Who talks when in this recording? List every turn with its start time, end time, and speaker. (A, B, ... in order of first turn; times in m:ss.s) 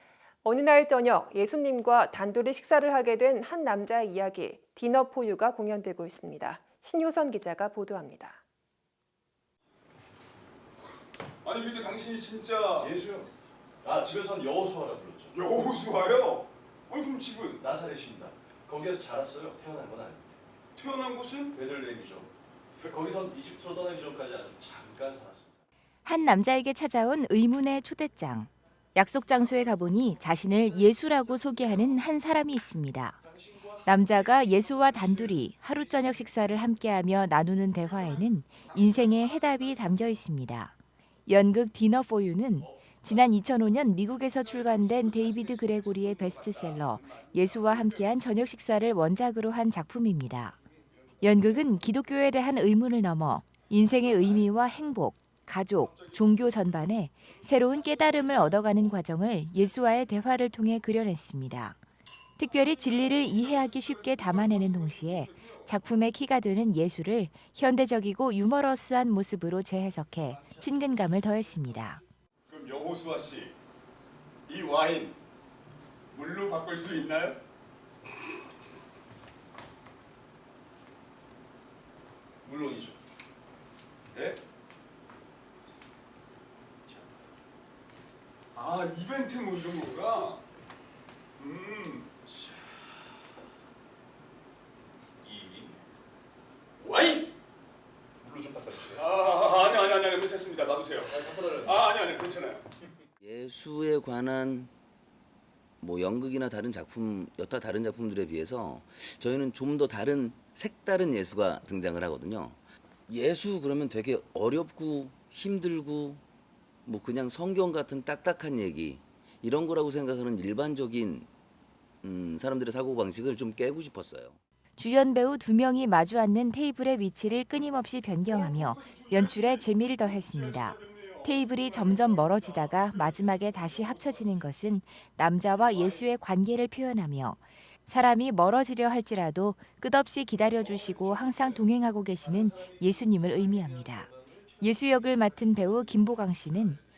0:00.4-0:08.4 A
0:11.4-0:12.9 B
0:12.8-0:13.3 C
0:13.8-0:15.4 C
0:15.3-0:17.6 B
0:17.6-0:20.3 C
0:20.8-0:21.6 B
0:21.5-0:25.6 C
0:26.0-0:33.2 D
0:31.3-0:31.9 C
0:33.2-0:36.3 C
0:33.9-0:40.7 D
0:37.8-0:39.9 B
0:41.3-0:50.6 D
0:42.6-0:43.1 C
0:44.3-0:48.1 B
0:51.2-1:01.8 D
0:54.0-0:54.5 B
0:55.8-0:56.5 B
0:57.8-0:58.5 B
1:02.4-1:12.0 D
1:02.4-1:05.7 B
1:10.3-1:10.9 C
1:12.5-1:13.5 B
1:14.5-1:15.2 B
1:16.1-1:17.4 B
1:22.4-1:23.0 C
1:28.6-1:30.4 B
1:31.4-1:32.1 B
1:35.2-1:35.8 C
1:36.9-1:37.3 B
1:38.2-1:39.0 C
1:39.0-1:42.7 B
1:41.0-1:41.8 C
1:43.2-1:44.7 E
1:45.8-1:56.2 E
1:56.8-2:01.3 E
2:02.0-2:04.4 E
2:04.8-2:26.8 D
2:08.3-2:13.8 B
2:13.8-2:14.2 C
2:15.6-2:16.1 B
2:20.8-2:21.5 C
2:22.2-2:26.8 C